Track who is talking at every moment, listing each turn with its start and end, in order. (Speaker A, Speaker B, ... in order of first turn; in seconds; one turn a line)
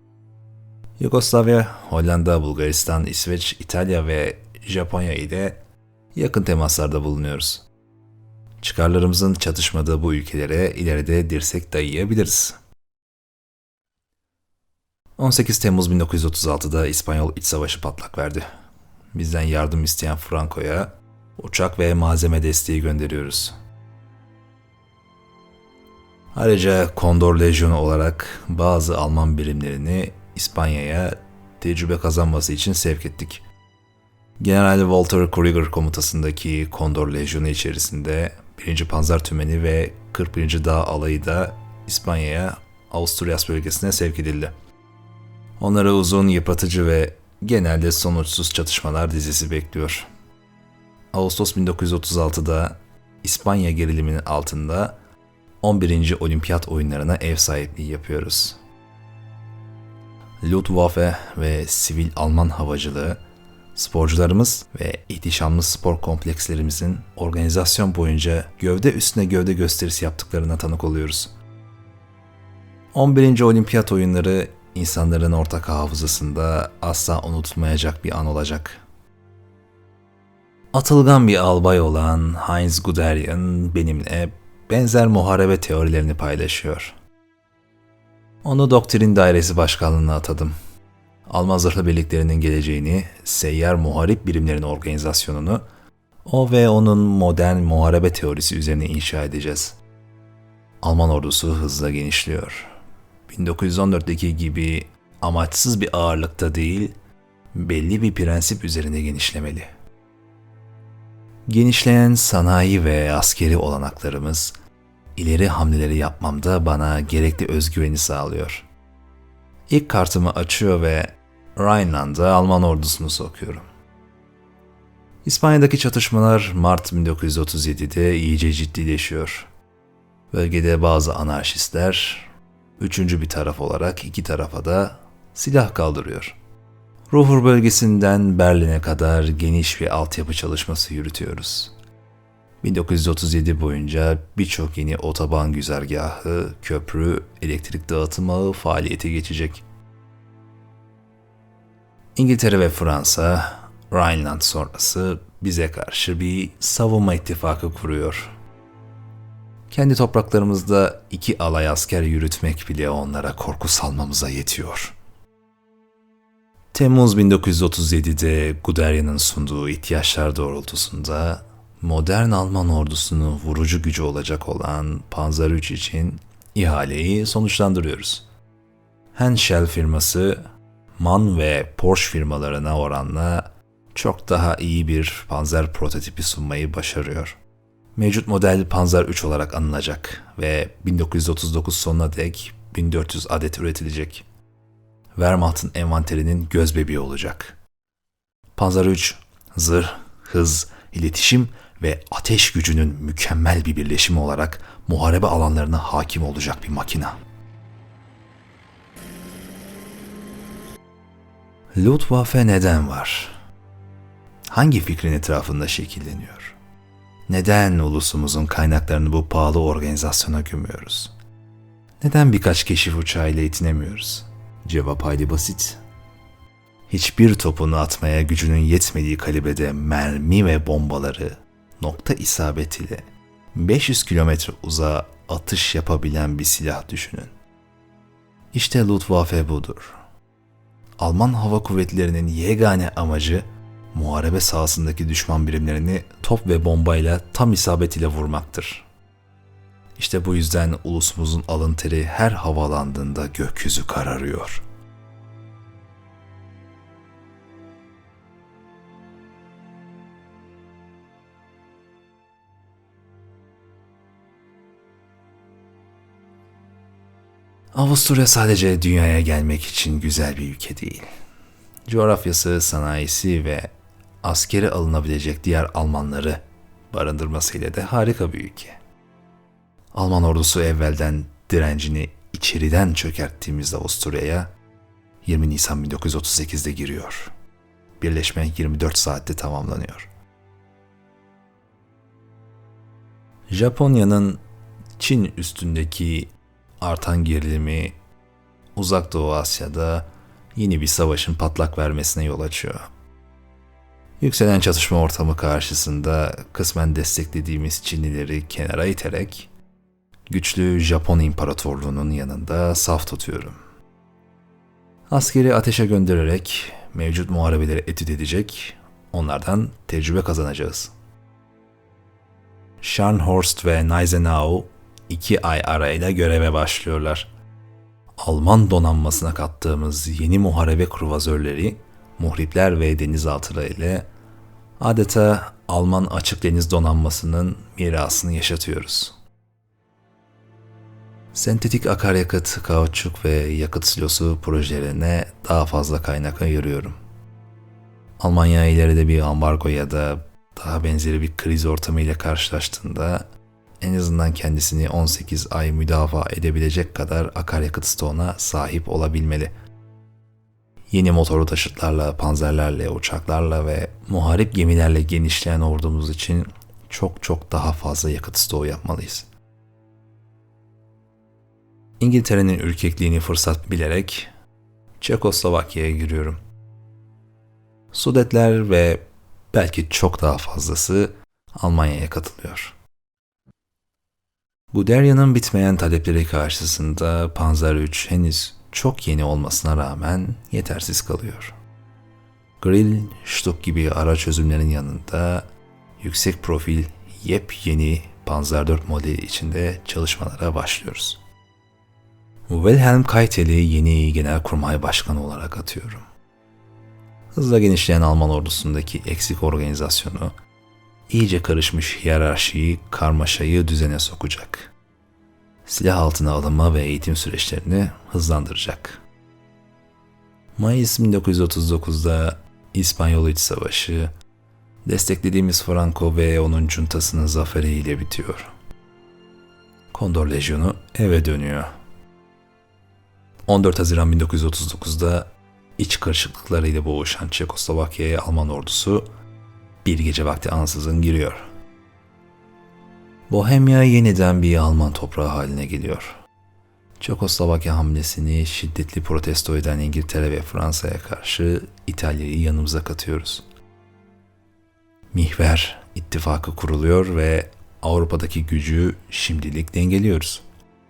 Speaker A: 1.0-5.6
Speaker A: 6.1-7.7
Speaker A: 8.6-12.6
Speaker A: 15.2-18.4
Speaker A: 19.1-23.5
Speaker A: 26.3-33.4
Speaker A: 34.4-44.5
Speaker A: 45.6-50.1
Speaker A: 51.1-55.0
Speaker A: 55.6-58.6
Speaker A: 60.4-63.2
Speaker A: 63.7-71.3
Speaker A: 72.9-78.8
Speaker A: 80.7-87.0
Speaker A: 88.4-90.5
Speaker A: 91.3-95.6
Speaker A: 96.2-99.8
Speaker A: 100.8-102.7
Speaker A: 103.3-106.9
Speaker A: 107.5-109.7
Speaker A: 111.5-114.5
Speaker A: 115.2-118.7
Speaker A: 119.7-123.7
Speaker A: 125.2-129.5
Speaker A: 130.3-136.4
Speaker A: 137.1-141.7
Speaker A: 142.6-149.6
Speaker A: 152.2-158.3
Speaker A: 159.7-164.9
Speaker A: 166.7-178.2
Speaker A: 179.1-180.4
Speaker A: 181.0-187.4
Speaker A: 187.9-194.2
Speaker A: 195.1-197.6
Speaker A: 198.6-207.2
Speaker A: 211.7-213.4
Speaker A: 214.5-216.6
Speaker A: 217.3-221.1
Speaker A: 222.0-225.8
Speaker A: 226.9-237.3
Speaker A: 238.5-239.9
Speaker A: 241.0-248.9
Speaker A: 249.9-254.6
Speaker A: 267.7-271.1
Speaker A: 271.9-278.8
Speaker A: 279.9-284.5
Speaker A: 285.2-287.3
Speaker A: 288.0-290.1
Speaker A: 293.5-294.4
Speaker A: 295.0-297.9
Speaker A: 298.7-302.8
Speaker A: 304.2-309.5
Speaker A: 310.3-313.6
Speaker A: 315.1-320.9
Speaker A: 322.8-327.3
Speaker A: 328.2-334.1
Speaker A: 334.8-339.1
Speaker A: 341.3-347.0
Speaker A: 348.2-353.2
Speaker A: 353.8-359.5
Speaker A: 360.9-369.3
Speaker A: 372.0-374.3
Speaker A: 375.0-376.4
Speaker A: 377.9-382.7
Speaker A: 384.7-391.5
Speaker A: 392.6-395.4
Speaker A: 396.0-401.2
Speaker A: 402.5-406.0
Speaker A: 407.3-410.3
Speaker A: 411.1-414.7
Speaker A: 415.6-419.0
Speaker A: 420.6-424.1
Speaker A: 424.8-428.5
Speaker A: 429.9-431.7
Speaker A: 433.4-439.1
Speaker A: 439.8-441.4
Speaker A: 443.3-446.2
Speaker A: 447.0-453.4
Speaker A: 455.1-460.4